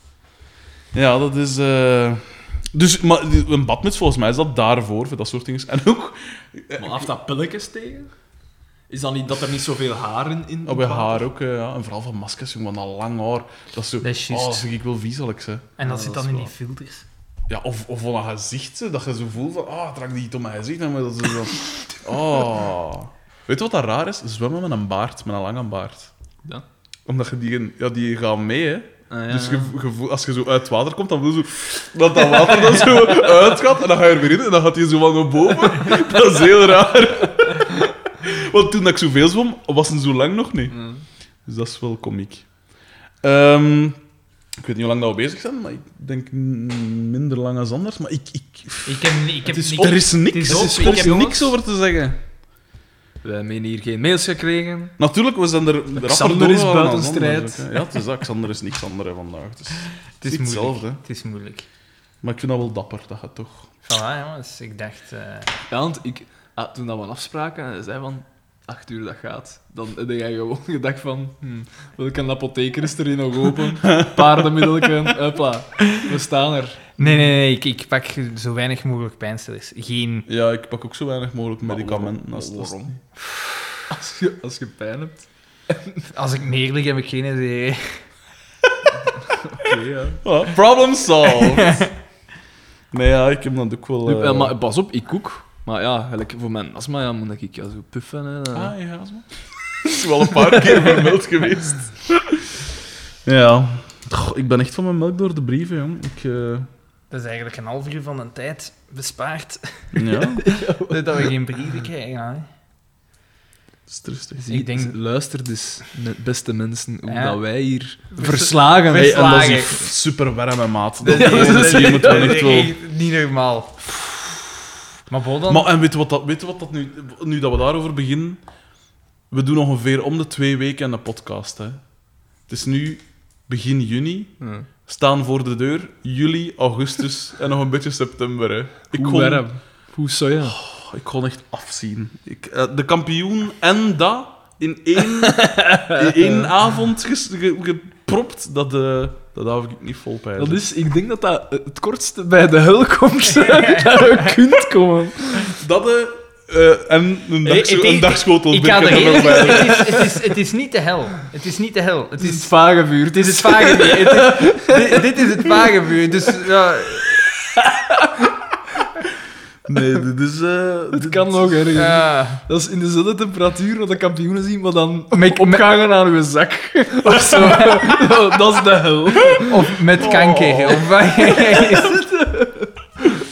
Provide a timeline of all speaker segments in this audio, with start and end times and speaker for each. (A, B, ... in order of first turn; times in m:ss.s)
0:00.9-0:07.1 A
0:06.8-0:08.1 B
0:08.9-0:11.3 B
0:10.6-0:16.5 A
0:14.0-0:14.6 C
0:15.8-0:17.0 C
0:17.5-0:26.1 A
0:27.1-0:40.8 A
0:29.1-0:29.8 B
0:40.7-0:41.0 B
0:41.4-0:42.5 A
0:43.2-0:44.0 A
0:44.6-0:49.1 A
0:48.8-0:51.5 C
0:49.5-0:51.4 B
0:49.8-0:52.2 A
0:53.2-0:55.0 B
0:55.0-1:01.0 A
0:55.9-0:57.8 B
1:00.2-1:01.6 C
1:02.2-1:03.7 A
1:03.8-1:05.6 C
1:05.7-1:17.3 B
1:13.9-1:14.2 A
1:17.0-1:20.3 C
1:20.3-1:23.0 A
1:21.6-1:22.9 B
1:23.2-1:23.7 C
1:23.9-1:26.0 B
1:26.1-1:28.0 C
1:29.1-1:30.2 B
1:30.2-1:31.8 A
1:31.3-1:31.9 C
1:32.9-1:34.5 A
1:34.0-1:38.7 B
1:38.5-1:39.3 A
1:39.8-1:42.6 A
1:40.0-1:41.1 B
1:43.2-1:46.7 A
1:47.1-1:52.5 C
1:49.9-1:50.5 A
1:50.4-1:51.3 B
1:53.9-1:54.4 A
1:54.4-1:59.3 B
1:54.5-1:55.0 C
1:57.1-1:57.4 C
1:58.1-1:59.8 C
1:58.9-2:02.7 A
2:01.0-2:02.6 B
2:01.0-2:03.9 C
2:05.1-2:05.7 C
2:05.5-2:08.4 A
2:09.3-2:11.8 A
2:12.5-2:14.3 A
2:14.4-2:14.7 B
2:14.9-2:19.4 A
2:18.9-2:20.6 B
2:20.4-2:30.6 A
2:25.2-2:26.5 B
2:30.4-2:35.6 B
2:33.4-2:34.4 C
2:35.5-2:40.0 A
2:37.4-2:42.5 C
2:39.1-2:40.2 B
2:42.2-2:45.2 B
2:43.1-2:47.3 C
2:47.6-2:48.3 B
2:49.6-2:51.6 A
2:50.9-2:59.6 B
2:51.7-2:52.4 C
2:55.1-2:55.7 C
2:57.3-2:57.9 C
2:59.4-3:02.0 C
2:59.9-3:01.0 A
3:01.2-3:02.7 B